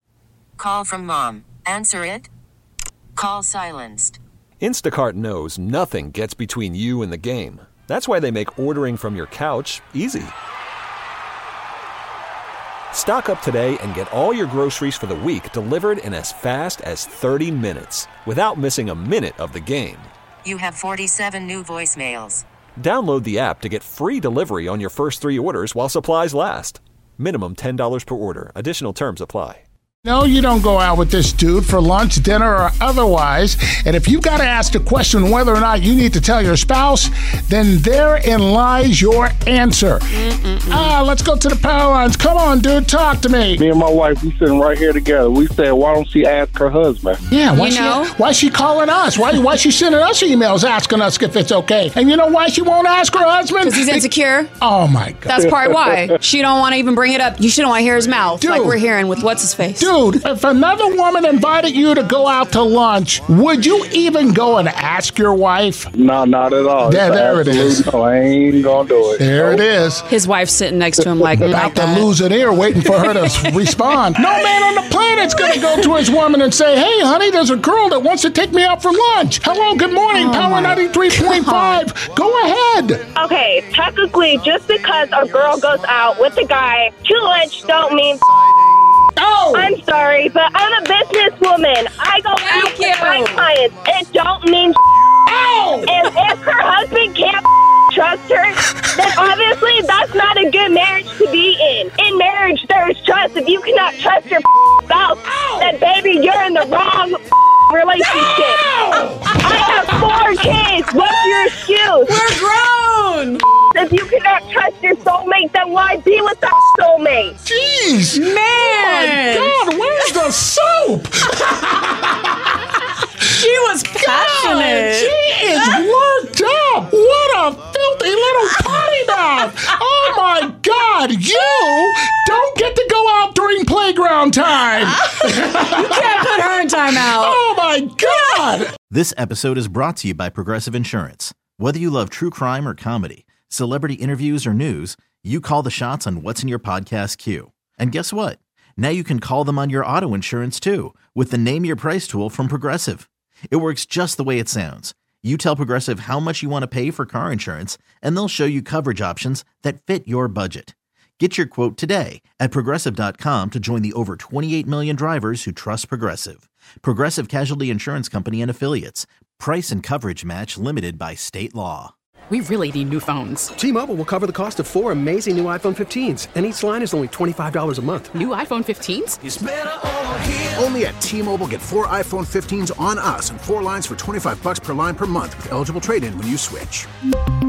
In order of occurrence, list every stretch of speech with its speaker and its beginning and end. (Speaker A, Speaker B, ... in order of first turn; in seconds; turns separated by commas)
Speaker A: 0.6-2.3, Speaker A: 3.1-4.2, Speaker B: 4.6-10.3, Speaker B: 12.9-20.1, Speaker A: 20.4-22.4, Speaker B: 22.8-29.6, Speaker C: 30.0-43.6, Speaker D: 40.2-40.9, Speaker E: 43.6-47.2, Speaker C: 47.3-54.1, Speaker D: 47.5-48.1, Speaker D: 53.6-54.5, Speaker C: 54.6-55.4, Speaker D: 55.3-59.9, Speaker E: 55.4-56.1, Speaker C: 58.3-58.8, Speaker C: 59.7-65.9, Speaker E: 65.9-69.6, Speaker C: 66.8-67.9, Speaker C: 69.2-70.1, Speaker D: 70.1-72.1, Speaker C: 71.3-83.0, Speaker D: 73.5-73.8, Speaker D: 80.1-81.8, Speaker F: 83.2-88.2, Speaker C: 89.2-89.7, Speaker F: 89.5-94.8, Speaker D: 92.3-93.5, Speaker C: 95.3-96.1, Speaker F: 95.8-108.7, Speaker C: 105.3-105.6, Speaker C: 108.0-110.1, Speaker F: 109.4-112.5, Speaker D: 112.0-113.4, Speaker F: 113.7-117.3, Speaker C: 117.4-122.5, Speaker D: 118.1-119.6, Speaker C: 123.2-138.7, Speaker D: 123.4-125.8, Speaker D: 135.7-137.4, Speaker G: 138.9-171.9, Speaker H: 172.3-173.5, Speaker I: 173.6-178.1, Speaker H: 178.2-179.2, Speaker J: 179.2-186.9